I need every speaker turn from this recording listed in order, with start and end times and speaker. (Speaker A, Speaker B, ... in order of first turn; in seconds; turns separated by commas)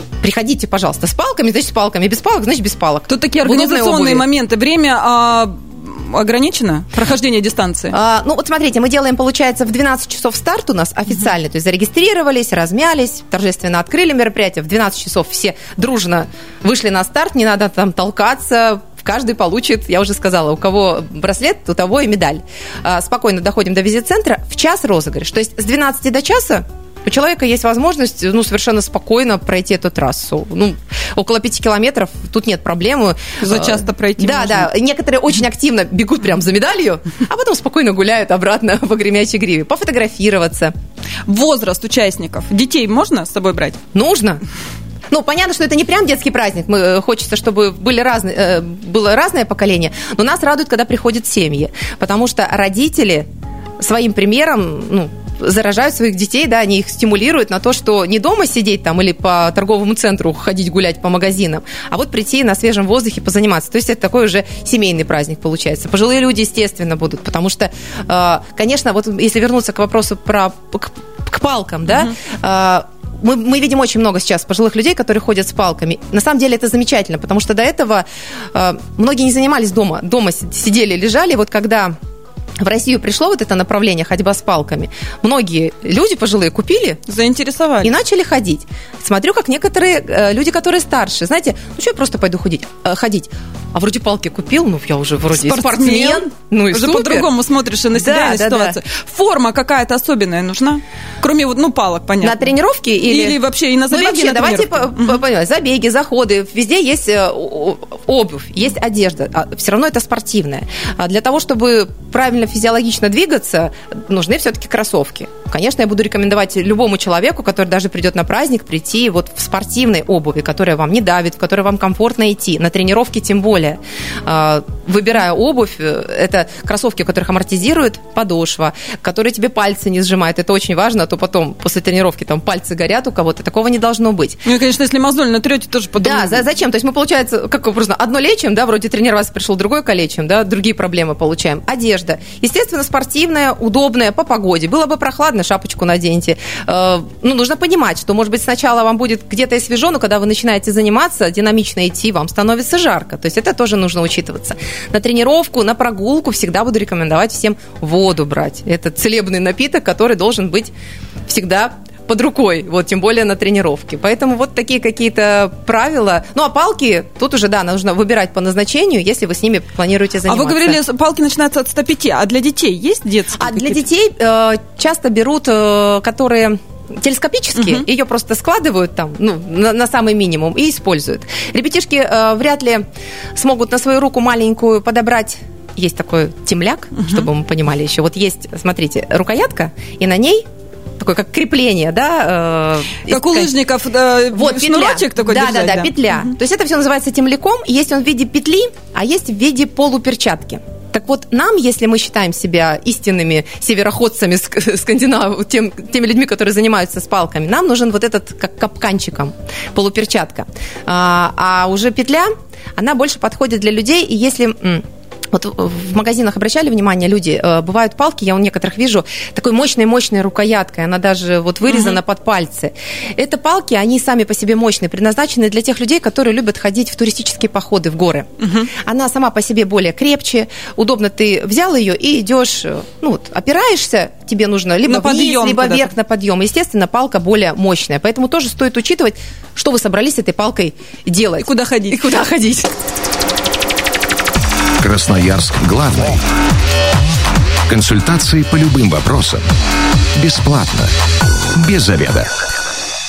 Speaker A: 0.2-4.2, Speaker B: 3.1-7.9, Speaker A: 7.9-40.7, Speaker B: 33.4-34.7, Speaker B: 41.3-43.8, Speaker A: 43.9-44.4, Speaker A: 45.1-53.3, Speaker A: 53.8-82.0, Speaker A: 82.6-87.0, Speaker B: 87.1-87.9, Speaker A: 87.8-97.3, Speaker B: 95.3-102.4, Speaker A: 98.0-98.8, Speaker A: 102.2-134.4, Speaker B: 103.0-105.2, Speaker B: 134.4-136.4, Speaker A: 136.0-160.7, Speaker A: 161.3-170.8, Speaker B: 170.3-173.8, Speaker A: 173.4-182.8, Speaker B: 177.6-177.8, Speaker A: 183.4-190.5, Speaker A: 191.0-193.5, Speaker B: 193.1-196.2, Speaker A: 194.3-242.8, Speaker B: 221.7-222.0, Speaker B: 228.4-228.7, Speaker B: 234.9-235.9, Speaker B: 241.4-242.0, Speaker C: 244.8-246.2, Speaker C: 247.7-249.4, Speaker C: 250.2-250.9, Speaker C: 251.5-252.3